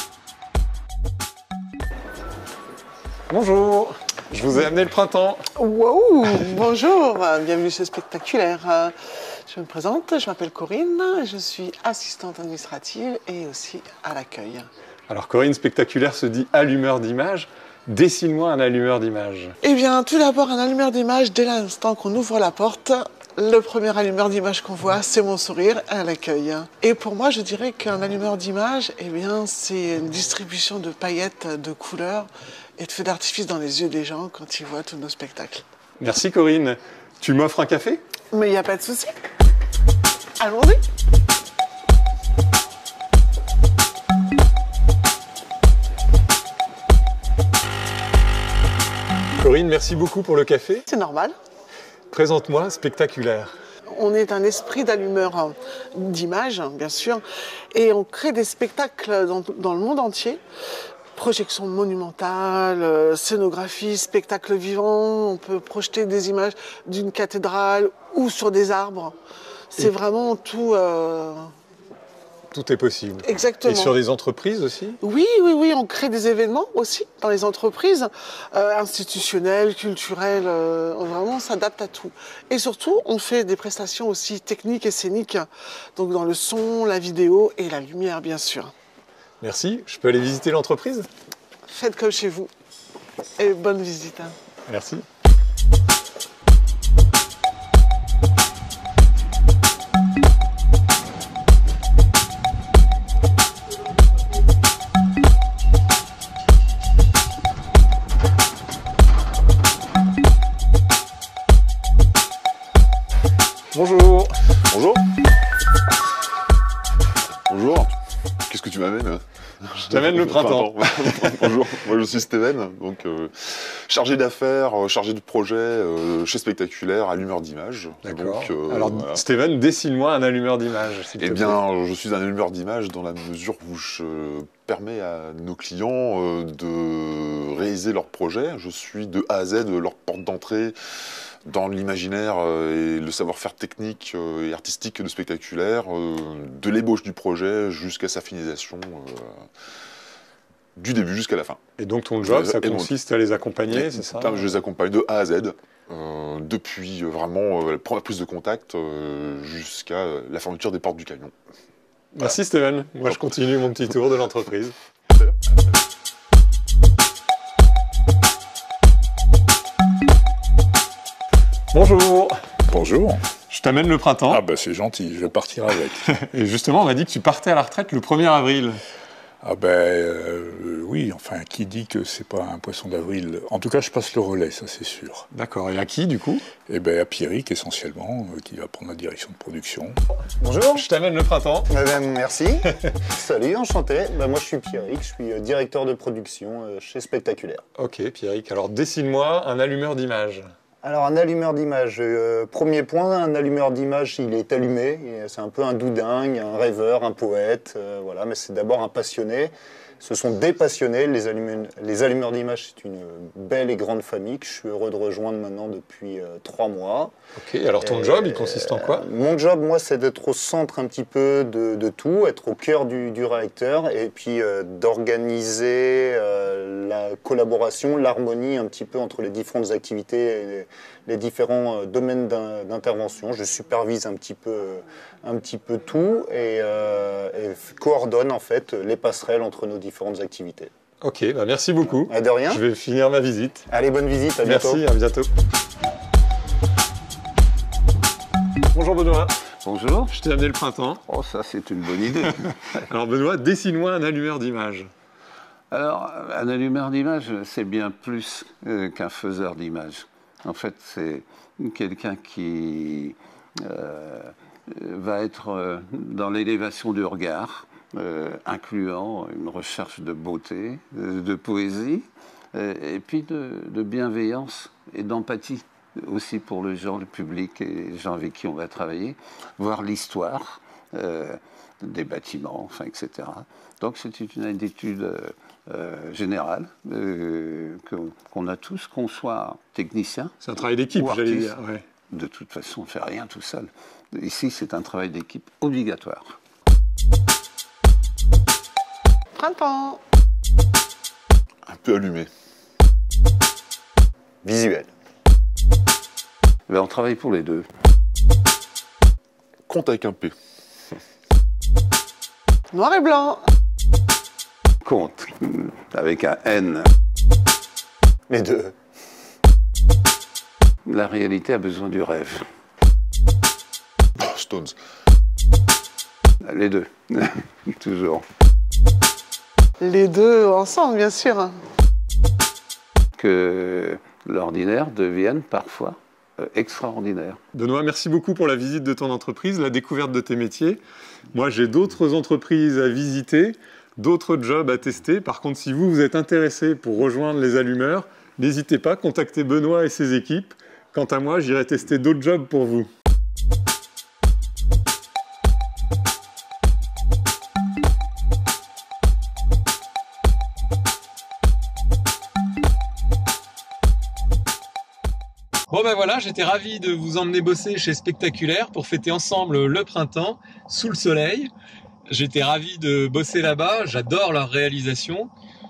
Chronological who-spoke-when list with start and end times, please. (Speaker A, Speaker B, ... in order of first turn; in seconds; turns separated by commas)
Speaker A: 3.3-5.4, Speaker B: 5.5-8.9, Speaker B: 9.5-14.7, Speaker A: 15.1-19.6, Speaker B: 19.6-35.6, Speaker A: 36.0-38.0, Speaker B: 38.3-39.1, Speaker B: 40.4-40.8, Speaker A: 49.4-50.8, Speaker B: 50.9-51.4, Speaker A: 52.1-53.5, Speaker B: 53.9-60.4, Speaker B: 61.1-69.2, Speaker B: 69.7-71.5, Speaker A: 72.5-75.0, Speaker B: 73.2-73.9, Speaker B: 75.0-88.7, Speaker A: 89.4-91.1, Speaker B: 91.7-92.5, Speaker B: 93.4-94.3, Speaker A: 94.7-95.0, Speaker A: 113.7-114.3, Speaker C: 114.7-115.0, Speaker C: 117.5-117.9, Speaker C: 118.5-129.2, Speaker A: 119.8-121.3, Speaker A: 128.0-131.6, Speaker C: 131.2-140.8, Speaker C: 141.4-149.4, Speaker C: 150.8-151.6, Speaker A: 151.8-154.4, Speaker C: 152.2-152.9, Speaker C: 153.7-161.3, Speaker A: 162.1-164.8, Speaker A: 171.7-172.4, Speaker D: 172.7-173.2, Speaker A: 173.5-174.4, Speaker D: 174.3-176.0, Speaker A: 176.1-178.8, Speaker D: 179.4-185.2, Speaker A: 185.3-186.4, Speaker D: 186.7-190.0, Speaker E: 190.4-190.9, Speaker A: 190.8-191.7, Speaker E: 191.7-197.6, Speaker A: 197.8-200.5, Speaker E: 200.8-217.1, Speaker A: 217.4-219.0, Speaker E: 217.8-240.7, Speaker A: 241.0-243.7, Speaker E: 241.9-242.6, Speaker E: 243.7-244.8, Speaker A: 244.4-245.3, Speaker A: 248.7-249.3, Speaker F: 249.6-250.1, Speaker A: 250.1-251.0, Speaker F: 251.1-252.4, Speaker A: 252.9-254.9, Speaker F: 255.7-290.3, Speaker A: 290.4-291.8, Speaker F: 290.9-291.6, Speaker F: 292.1-296.3, Speaker B: 299.3-300.0, Speaker C: 301.6-302.3, Speaker E: 304.4-304.9, Speaker F: 306.7-307.7, Speaker C: 309.7-310.3, Speaker B: 312.7-313.4, Speaker F: 314.8-316.9, Speaker E: 318.3-318.7, Speaker F: 320.9-322.4, Speaker C: 324.2-324.8, Speaker F: 326.4-328.2, Speaker B: 329.8-331.6, Speaker F: 333.2-337.4, Speaker A: 337.5-340.8, Speaker A: 341.3-352.9, Speaker A: 365.7-371.5, Speaker A: 372.1-375.3